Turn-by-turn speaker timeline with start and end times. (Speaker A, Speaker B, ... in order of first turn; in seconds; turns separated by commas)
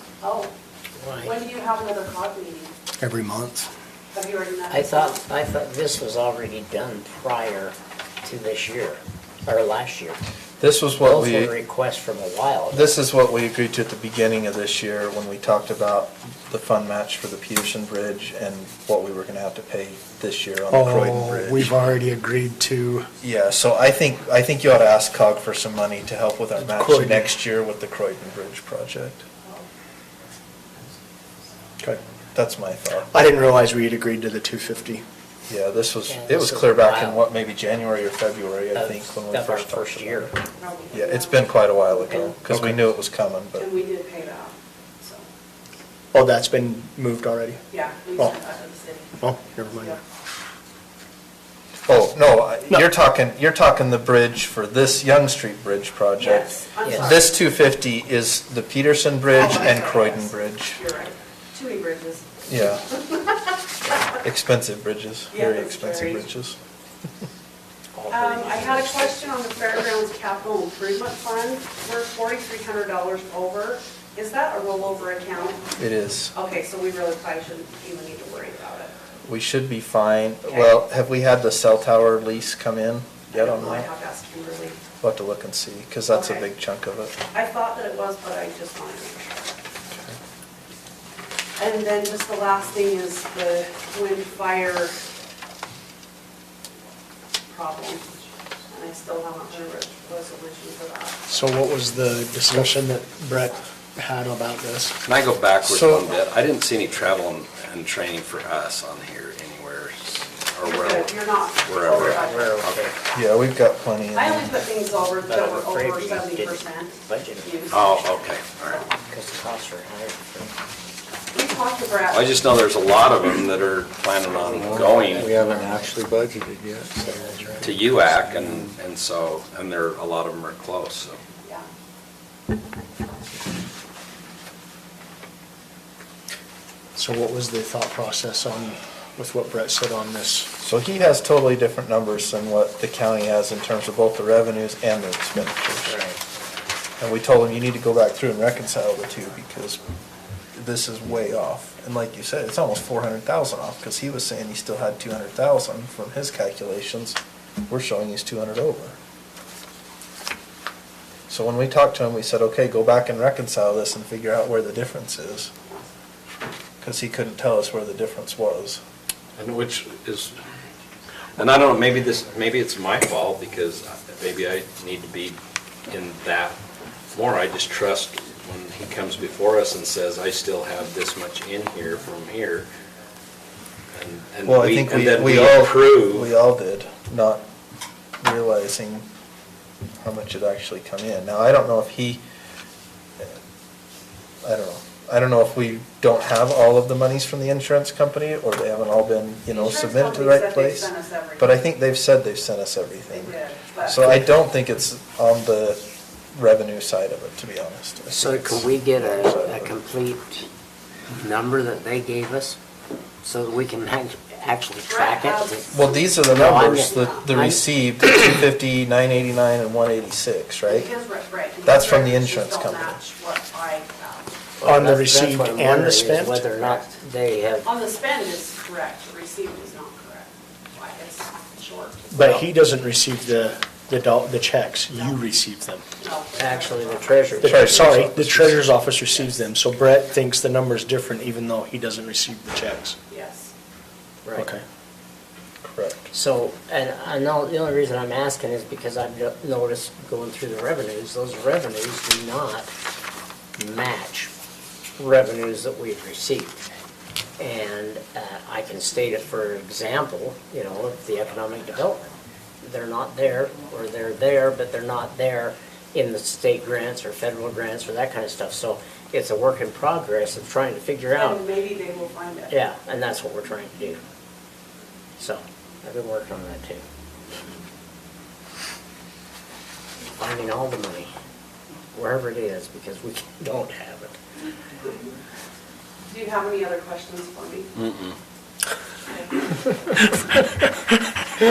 Speaker A: 0.2-0.5, Speaker B: 1.0-1.4, Speaker A: 1.2-2.7, Speaker C: 3.0-3.7, Speaker A: 4.1-5.2, Speaker B: 4.7-10.2, Speaker D: 10.6-11.6, Speaker B: 11.0-13.0, Speaker D: 12.7-21.7, Speaker C: 20.7-23.1, Speaker D: 23.2-29.2, Speaker C: 26.6-27.3, Speaker D: 32.3-33.1, Speaker C: 33.1-35.0, Speaker D: 35.5-40.3, Speaker B: 36.1-37.2, Speaker B: 38.7-40.4, Speaker A: 40.6-42.4, Speaker D: 40.9-43.7, Speaker C: 42.5-42.8, Speaker A: 43.6-45.3, Speaker C: 46.1-47.6, Speaker A: 47.7-50.0, Speaker C: 49.2-50.0, Speaker D: 51.9-60.8, Speaker A: 56.2-57.5, Speaker B: 56.8-57.2, Speaker A: 59.3-62.4, Speaker D: 62.5-62.9, Speaker A: 63.0-63.4, Speaker D: 64.0-66.6, Speaker A: 65.3-66.3, Speaker B: 67.9-69.4, Speaker A: 68.1-75.7, Speaker D: 75.8-76.3, Speaker A: 76.3-78.9, Speaker D: 79.2-83.9, Speaker A: 80.5-80.7, Speaker A: 83.3-84.8, Speaker D: 85.0-87.1, Speaker A: 86.1-86.5, Speaker A: 87.3-89.5, Speaker A: 91.6-95.0, Speaker A: 97.5-98.1, Speaker A: 98.7-101.3, Speaker C: 101.3-105.0, Speaker E: 105.0-112.9, Speaker D: 105.6-106.2, Speaker A: 110.6-113.3, Speaker B: 111.9-113.0, Speaker D: 113.1-114.6, Speaker A: 114.1-118.0, Speaker B: 115.2-118.2, Speaker E: 117.7-118.8, Speaker B: 119.1-120.5, Speaker A: 121.3-122.3, Speaker E: 122.1-125.3, Speaker B: 124.3-126.0, Speaker F: 124.5-128.8, Speaker B: 127.0-127.8, Speaker E: 127.6-131.2, Speaker C: 136.9-140.5, Speaker D: 140.6-146.0, Speaker B: 145.9-146.2, Speaker D: 147.0-149.8, Speaker D: 150.5-159.0, Speaker D: 161.3-165.5, Speaker D: 166.8-168.8, Speaker E: 169.4-170.4, Speaker E: 171.4-176.6, Speaker E: 177.1-182.7, Speaker E: 183.9-186.3, Speaker D: 184.4-187.4, Speaker D: 188.2-189.1, Speaker D: 190.0-192.2, Speaker D: 194.4-209.7, Speaker A: 199.5-201.5, Speaker A: 203.1-204.2, Speaker B: 208.1-210.5, Speaker B: 211.2-212.6, Speaker B: 213.2-215.8, Speaker A: 214.9-217.3, Speaker D: 215.7-220.9, Speaker B: 216.3-217.9, Speaker A: 220.7-224.3, Speaker D: 221.6-223.0, Speaker B: 224.6-227.7, Speaker C: 224.6-226.4, Speaker A: 227.6-232.4, Speaker C: 232.1-235.8, Speaker A: 234.9-235.2, Speaker A: 236.0-237.2, Speaker B: 236.4-237.9, Speaker D: 237.3-238.7, Speaker C: 237.4-243.0, Speaker A: 243.1-243.5, Speaker B: 244.2-244.5, Speaker C: 244.4-244.6, Speaker D: 245.6-246.1, Speaker B: 246.1-252.7, Speaker B: 253.6-254.3, Speaker B: 255.0-256.6, Speaker B: 257.4-262.1, Speaker B: 262.6-271.5, Speaker A: 271.1-272.6, Speaker B: 272.5-274.0, Speaker B: 275.2-276.8, Speaker B: 280.2-281.1, Speaker B: 281.9-284.1, Speaker A: 286.1-287.7, Speaker E: 287.8-288.1